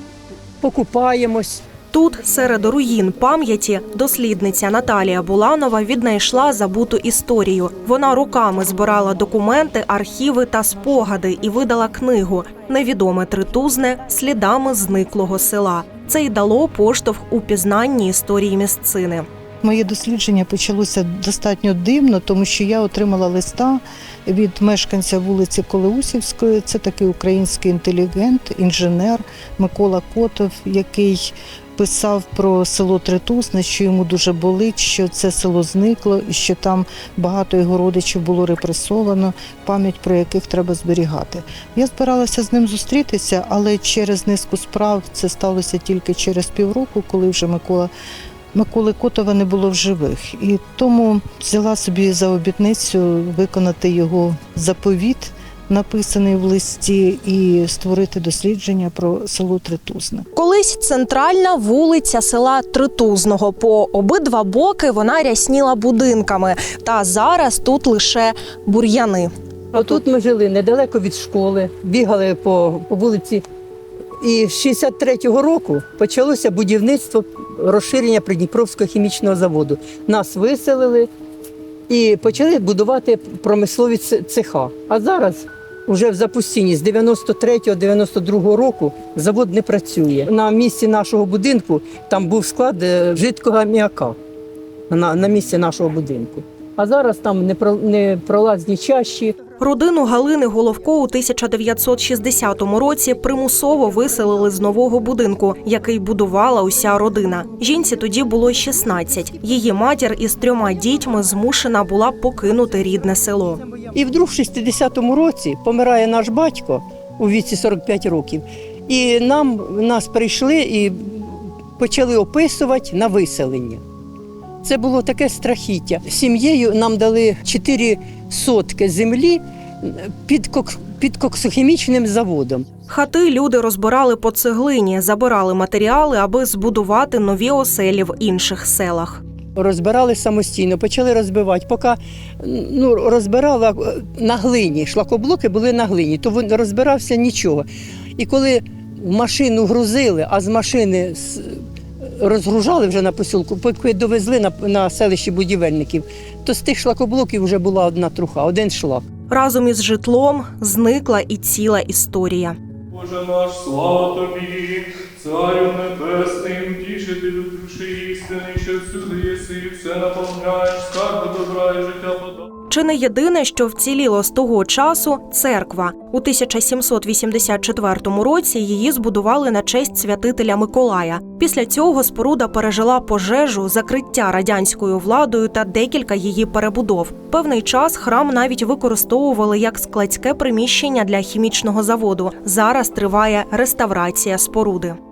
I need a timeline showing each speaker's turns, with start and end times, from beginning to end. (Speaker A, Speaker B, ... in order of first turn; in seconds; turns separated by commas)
Speaker A: 0.6-1.6, Speaker B: 1.9-19.2, Speaker C: 19.6-47.9, Speaker C: 48.5-60.3, Speaker B: 60.3-69.3, Speaker A: 69.7-73.4, Speaker A: 74.2-81.1, Speaker A: 81.9-94.2, Speaker A: 94.9-99.4, Speaker B: 99.6-113.6, Speaker A: 113.7-123.8, Speaker A: 124.6-132.7, Speaker B: 132.9-139.2, Speaker A: 139.6-147.7, Speaker A: 148.2-159.1, Speaker B: 159.3-162.6, Speaker D: 162.9-172.5, Speaker B: 172.7-195.0